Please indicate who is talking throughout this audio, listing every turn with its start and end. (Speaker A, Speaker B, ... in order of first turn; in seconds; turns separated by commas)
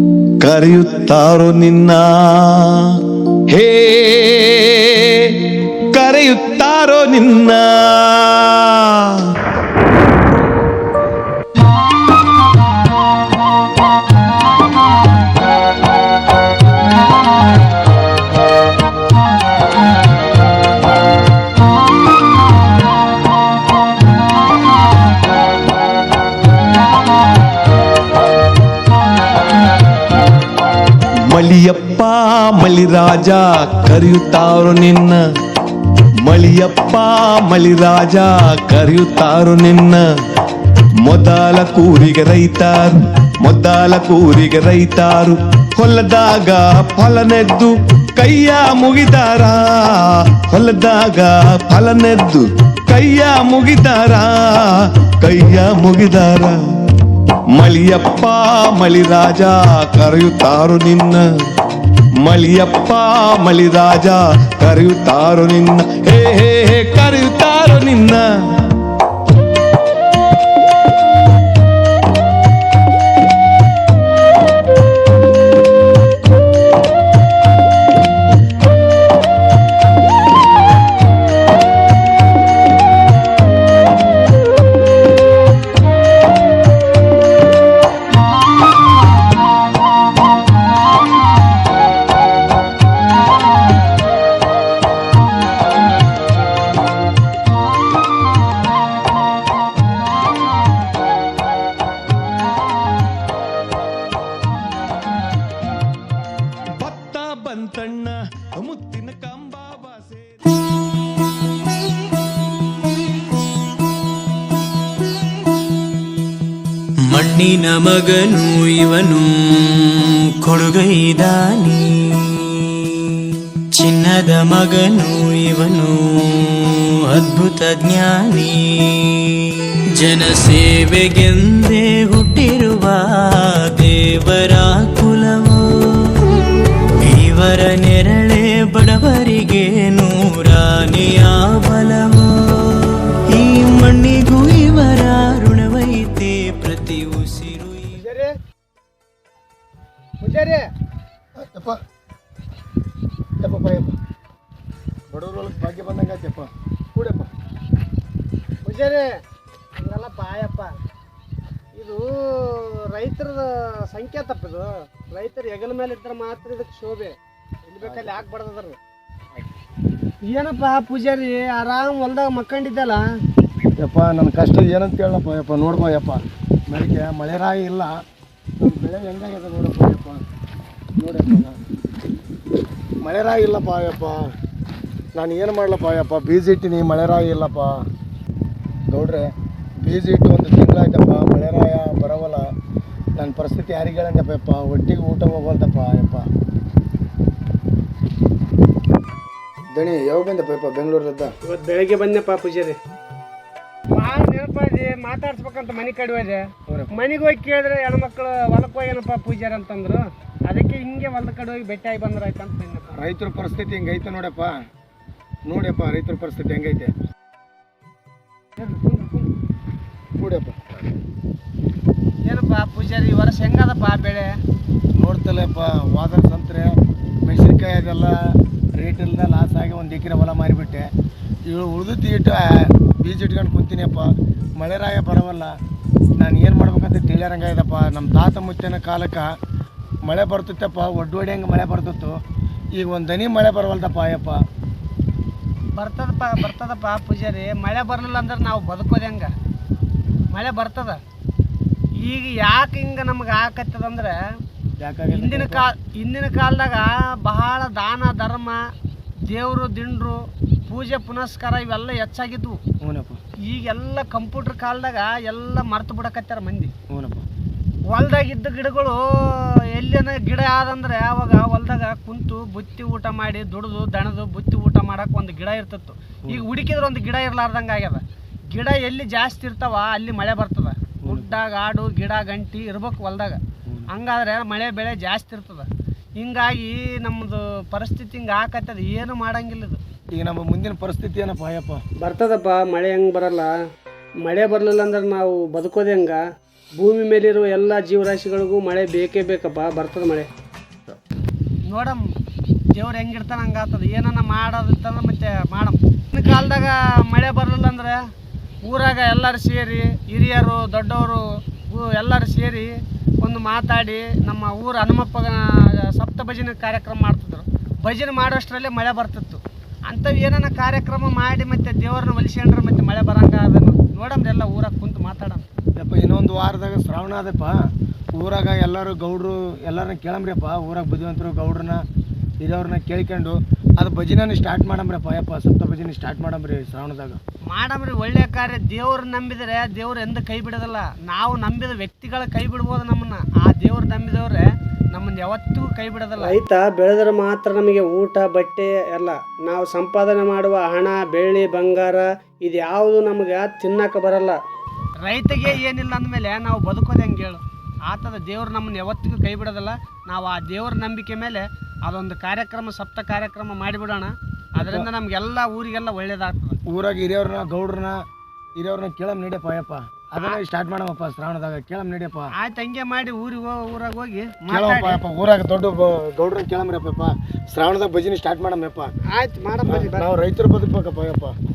Speaker A: 0.4-2.8, Speaker A: 3.5-8.8, Speaker A: 31.3-35.2, Speaker A: 36.2-40.0, Speaker A: 41.0-54.5, Speaker A: 55.2-56.5, Speaker A: 57.5-61.2, Speaker A: 62.2-68.2, Speaker A: 106.8-110.4, Speaker B: 117.1-119.9, Speaker B: 120.4-122.6, Speaker B: 123.8-126.0, Speaker B: 127.1-129.2, Speaker B: 130.0-133.0, Speaker B: 133.7-135.6, Speaker B: 137.1-148.0, Speaker C: 147.9-148.3, Speaker C: 150.2-150.6, Speaker D: 151.4-151.8, Speaker D: 153.4-153.9, Speaker D: 155.1-157.3, Speaker C: 158.6-159.1, Speaker C: 159.8-160.8, Speaker C: 161.7-168.8, Speaker D: 167.8-168.3, Speaker C: 170.3-173.0, Speaker D: 173.8-177.9, Speaker D: 178.6-180.2, Speaker D: 181.0-181.6, Speaker D: 183.0-184.2, Speaker D: 185.1-187.8, Speaker D: 188.9-189.3, Speaker D: 189.8-192.5, Speaker D: 193.2-196.3, Speaker D: 199.7-201.3, Speaker C: 201.4-202.8, Speaker C: 203.9-212.9, Speaker D: 212.9-214.5, Speaker D: 215.5-216.9, Speaker C: 218.6-219.3, Speaker D: 220.2-220.6, Speaker C: 222.2-224.3, Speaker D: 225.0-228.2, Speaker D: 228.8-230.9, Speaker D: 231.5-235.5, Speaker D: 236.2-239.3, Speaker D: 240.1-242.2, Speaker D: 242.8-244.4, Speaker C: 245.7-249.3, Speaker C: 250.3-251.0, Speaker C: 252.0-254.2, Speaker D: 254.8-255.7, Speaker C: 255.1-258.6, Speaker C: 259.3-262.6, Speaker D: 262.8-263.2, Speaker C: 263.5-266.7, Speaker D: 266.9-267.3, Speaker C: 267.9-283.4, Speaker D: 281.0-281.3, Speaker C: 283.9-285.7, Speaker C: 286.2-289.8, Speaker D: 290.1-291.8, Speaker C: 292.0-293.5, Speaker C: 294.2-296.2, Speaker C: 296.8-300.3, Speaker C: 301.6-302.1, Speaker C: 302.7-308.0, Speaker C: 308.6-325.4, Speaker D: 325.8-327.6, Speaker D: 328.2-331.8, Speaker D: 332.4-337.2, Speaker C: 337.5-354.4, Speaker C: 355.0-366.6, Speaker D: 364.6-364.9, Speaker D: 366.7-368.0, Speaker D: 368.6-372.3, Speaker C: 372.4-375.0, Speaker D: 374.5-378.9, Speaker C: 379.1-380.1, Speaker D: 379.6-381.4